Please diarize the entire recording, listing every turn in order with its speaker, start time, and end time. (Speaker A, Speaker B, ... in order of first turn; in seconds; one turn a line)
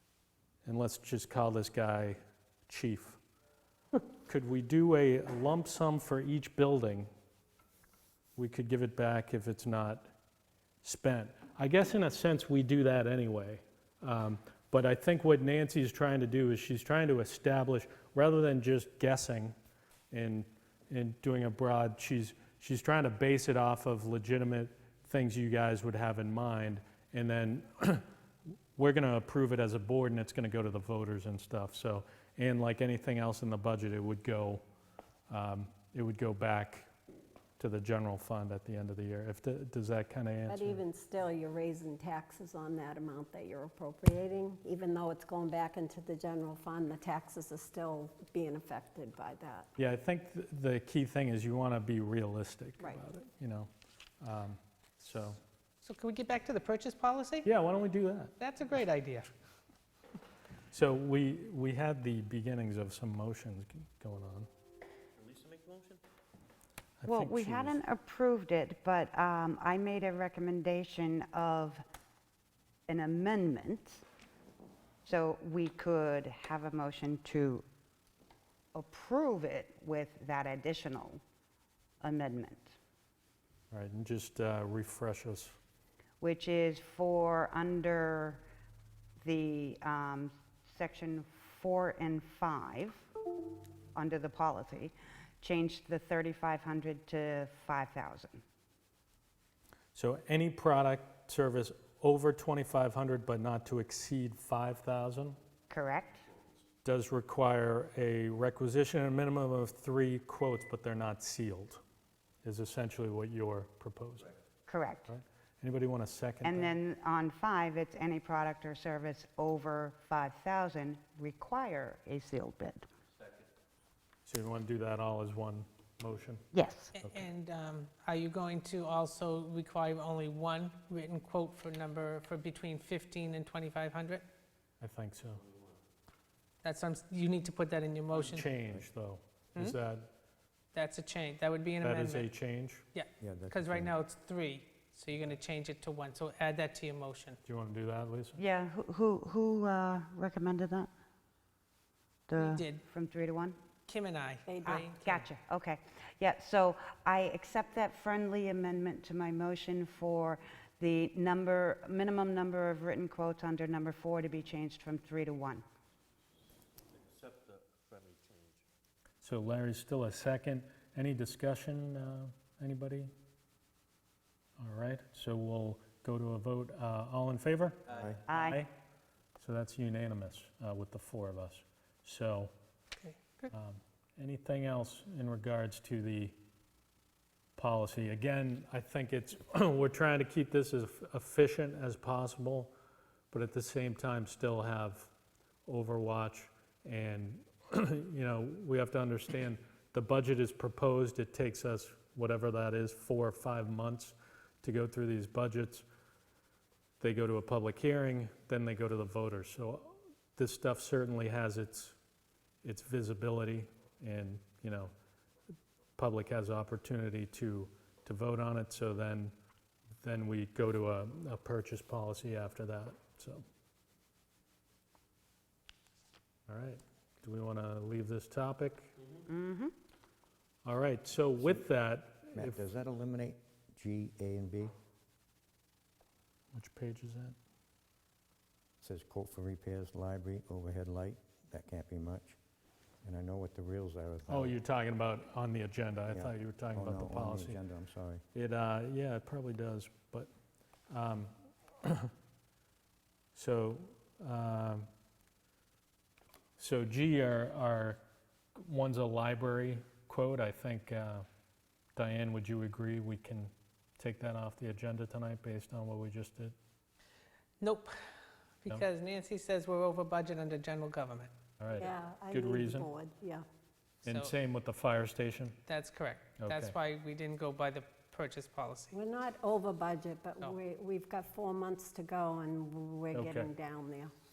Speaker A: 0.6-3.2
Speaker A: 4.2-7.1
Speaker A: 8.3-10.1
Speaker A: 10.8-19.5
Speaker A: 20.1-28.1
Speaker A: 28.8-34.6
Speaker A: 35.3-36.9
Speaker A: 37.6-40.8
Speaker B: 40.5-49.7
Speaker A: 49.8-53.7
Speaker A: 54.2-55.4
Speaker C: 55.8-57.5
Speaker A: 57.4-58.3
Speaker C: 58.4-59.3
Speaker A: 60.7-64.5
Speaker A: 67.0-67.8
Speaker D: 67.0-71.8
Speaker D: 72.9-74.0
Speaker D: 75.0-77.6
Speaker D: 78.7-81.2
Speaker D: 82.0-82.8
Speaker A: 83.7-85.6
Speaker D: 86.2-88.4
Speaker D: 89.2-93.0
Speaker D: 93.9-98.4
Speaker A: 99.9-105.4
Speaker D: 105.7-106.3
Speaker A: 106.8-111.8
Speaker A: 112.4-114.3
Speaker D: 114.7-115.1
Speaker A: 115.1-116.8
Speaker D: 116.4-122.8
Speaker A: 124.2-126.5
Speaker D: 126.5-126.9
Speaker C: 126.9-134.2
Speaker A: 134.8-135.4
Speaker C: 136.6-138.5
Speaker A: 138.1-140.1
Speaker C: 140.7-142.3
Speaker A: 141.8-142.8
Speaker C: 142.9-147.4
Speaker E: 143.2-143.9
Speaker A: 147.4-148.4
Speaker D: 148.4-150.9
Speaker D: 152.3-153.6
Speaker C: 152.4-152.8
Speaker C: 153.9-155.2
Speaker B: 154.5-154.8
Speaker D: 154.6-165.6
Speaker A: 169.2-173.1
Speaker A: 174.6-178.7
Speaker E: 177.9-178.2
Speaker D: 178.3-178.6
Speaker A: 179.4-182.5
Speaker C: 183.0-183.5
Speaker A: 183.5-186.3
Speaker A: 187.6-192.7
Speaker A: 193.3-195.1
Speaker A: 195.7-205.8
Speaker A: 207.0-211.9
Speaker A: 212.6-214.9
Speaker A: 216.0-219.3
Speaker A: 220.0-223.4
Speaker A: 226.5-228.9
Speaker D: 229.3-229.7
Speaker A: 230.6-232.6
Speaker E: 232.3-234.7
Speaker A: 236.5-237.3
Speaker E: 238.8-242.4
Speaker E: 243.0-244.5
Speaker A: 244.3-247.6
Speaker E: 246.1-248.2
Speaker A: 248.3-250.3
Speaker A: 250.9-252.1
Speaker A: 253.3-254.9
Speaker A: 256.6-258.0
Speaker A: 258.6-261.2
Speaker A: 261.9-266.5
Speaker C: 267.6-267.9
Speaker C: 268.6-271.3
Speaker A: 271.6-272.9
Speaker B: 271.8-273.4
Speaker A: 274.0-275.6
Speaker C: 274.1-274.3
Speaker C: 275.6-278.9
Speaker A: 276.4-276.7
Speaker B: 278.9-284.1
Speaker A: 283.1-283.5